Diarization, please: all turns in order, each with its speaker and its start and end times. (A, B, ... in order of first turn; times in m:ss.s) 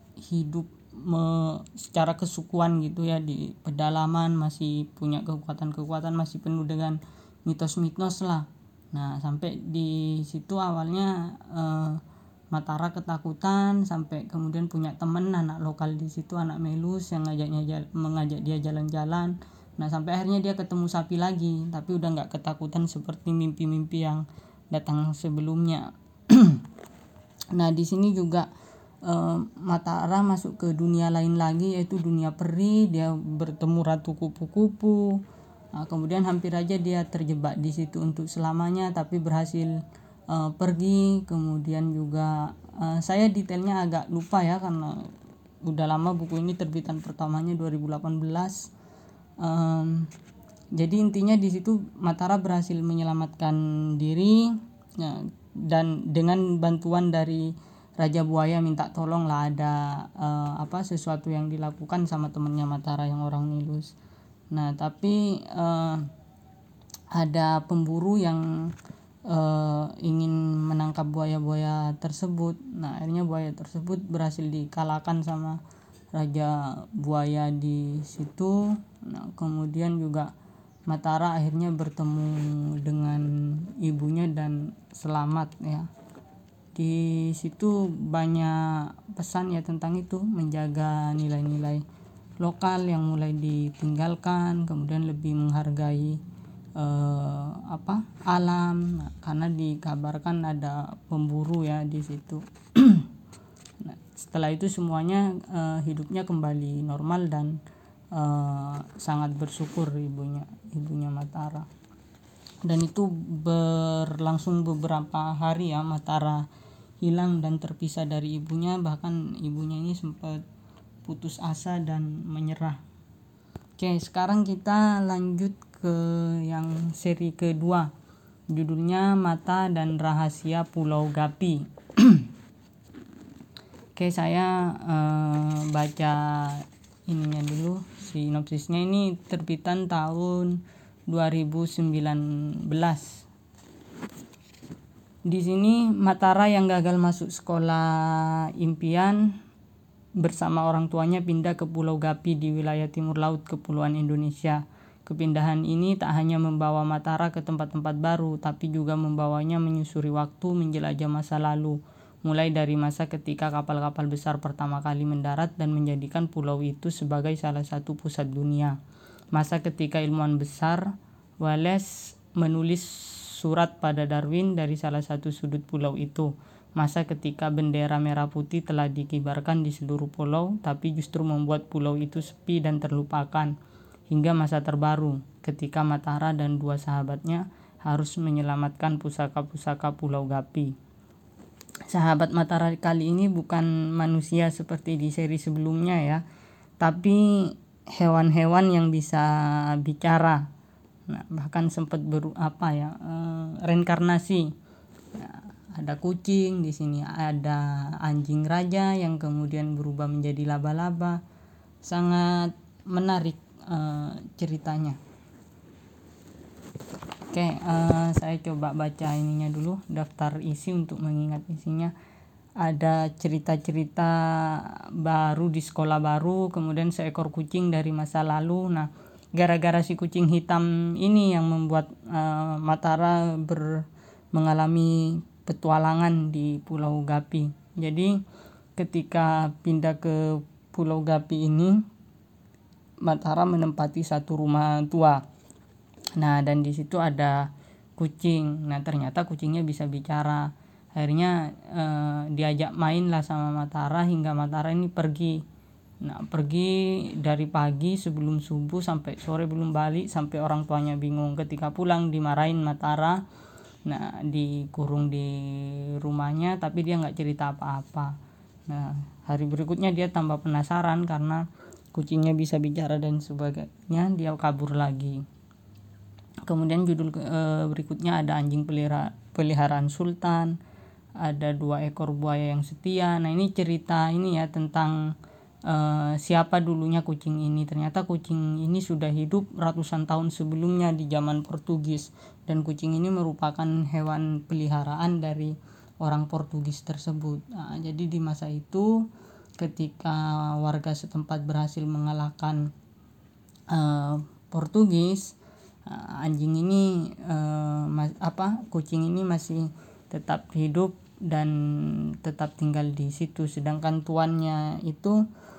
0:00.2-0:26.6 A
0:27.5-0:28.5 A
0:29.0-0:35.2 A
0:35.7-0:39.8 A
0:40.3-0:45.1 A
0:45.6-0:48.7 A
0:49.4-0:50.1 A
0:50.8-1:03.9 A
1:04.5-1:06.1 A
1:07.1-1:08.7 A
1:09.3-1:15.6 A
1:16.1-1:20.3 A
1:20.9-1:25.9 A
1:26.7-1:31.8 A
1:32.4-1:36.2 A
1:36.8-1:43.1 A
1:43.8-1:47.6 A
1:48.1-1:51.7 A
1:52.6-1:56.5 A
1:57.0-2:00.4 A
2:01.0-2:02.8 A
2:03.8-2:07.9 A
2:08.5-2:12.3 A
2:14.0-2:23.3 A
2:25.3-2:29.4 A
2:30.2-2:48.8 A
2:49.3-3:03.5 A
3:04.1-3:10.7 A
3:11.9-3:16.2 A
3:16.8-3:20.5 A
3:21.1-3:24.5 A
3:25.1-3:31.2 A
3:31.8-3:35.0 A
3:37.3-3:41.9 A
3:42.6-3:58.2 A
3:58.8-4:01.8 A
4:03.0-4:05.2 A
4:06.2-4:15.4 A
4:16.0-4:23.2 A
4:23.8-4:28.1 A
4:28.7-4:35.2 A
4:36.5-4:40.6 A
4:41.2-4:45.1 A
4:45.6-4:59.0 A
4:59.6-5:02.7 A
5:03.7-5:15.2 A